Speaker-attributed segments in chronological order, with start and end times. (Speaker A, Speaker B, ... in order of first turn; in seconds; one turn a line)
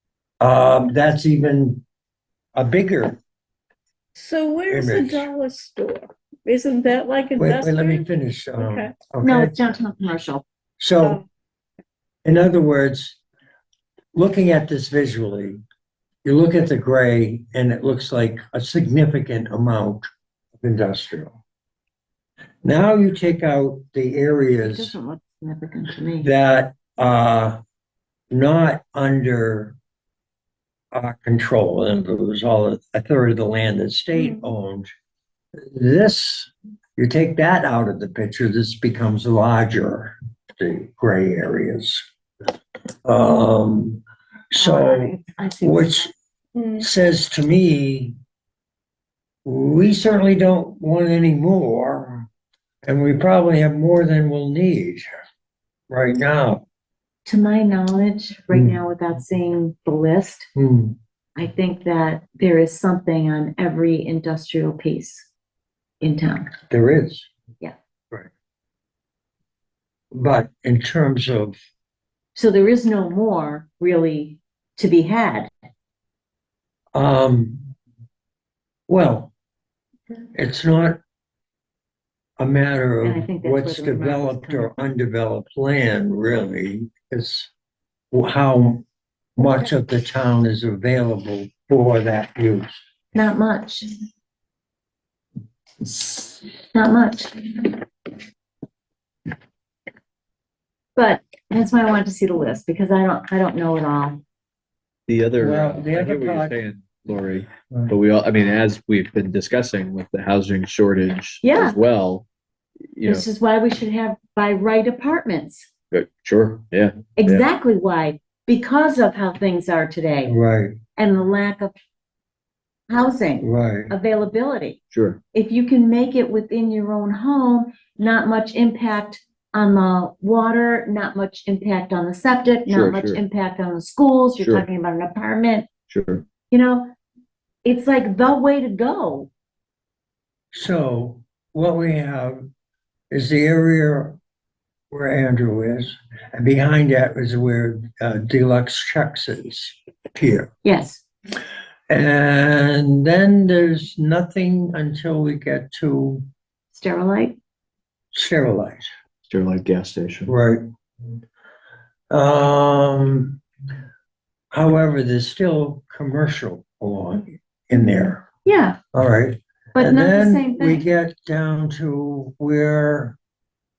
Speaker A: 0.4-1.8
Speaker A: 2.5-3.2
Speaker B: 4.2-8.9
Speaker A: 4.7-5.3
Speaker A: 7.3-9.6
Speaker C: 9.2-10.4
Speaker A: 10.8-11.2
Speaker A: 12.2-13.2
Speaker A: 14.1-15.6
Speaker A: 16.2-20.1
Speaker A: 20.6-21.4
Speaker A: 22.6-24.9
Speaker C: 24.6-26.3
Speaker A: 26.2-27.6
Speaker A: 28.3-29.8
Speaker A: 30.9-34.9
Speaker A: 35.7-42.0
Speaker A: 43.0-44.0
Speaker A: 44.5-46.1
Speaker C: 44.5-46.1
Speaker B: 46.5-46.8
Speaker A: 46.8-48.1
Speaker A: 49.4-52.3
Speaker A: 52.8-55.0
Speaker A: 55.9-56.6
Speaker C: 57.2-60.5
Speaker A: 58.5-58.8
Speaker A: 60.5-61.0
Speaker C: 61.4-65.3
Speaker C: 66.0-66.5
Speaker A: 66.7-67.3
Speaker A: 70.1-71.6
Speaker C: 72.3-75.5
Speaker A: 76.9-77.7
Speaker A: 78.9-79.3
Speaker A: 80.3-81.0
Speaker A: 82.4-87.5
Speaker C: 83.0-84.8
Speaker A: 88.1-88.8
Speaker A: 89.4-92.8
Speaker C: 93.1-93.9
Speaker C: 95.8-97.8
Speaker C: 101.0-104.2
Speaker D: 105.1-112.2
Speaker A: 105.4-106.6
Speaker C: 111.4-111.8
Speaker D: 112.9-113.3
Speaker C: 113.0-115.7
Speaker D: 115.9-117.5
Speaker C: 117.2-120.3
Speaker A: 120.2-120.8
Speaker C: 121.0-121.7
Speaker C: 122.9-124.8
Speaker A: 123.4-123.9
Speaker D: 124.9-125.2
Speaker C: 125.3-135.7
Speaker D: 132.7-133.2
Speaker D: 134.4-134.7
Speaker D: 135.9-136.2
Speaker C: 136.5-136.9
Speaker C: 137.6-139.3
Speaker A: 140.5-142.4
Speaker A: 143.1-144.2
Speaker A: 144.9-150.5
Speaker C: 150.6-151.0
Speaker A: 151.9-156.2
Speaker C: 156.7-157.4
Speaker A: 158.1-158.8
Speaker D: 159.2-160.3
Speaker A: 160.2-160.6
Speaker A: 162.1-163.4
Speaker A: 164.5-168.2
Speaker C: 168.4-168.8
Speaker A: 168.9-173.2
Speaker C: 169.8-170.8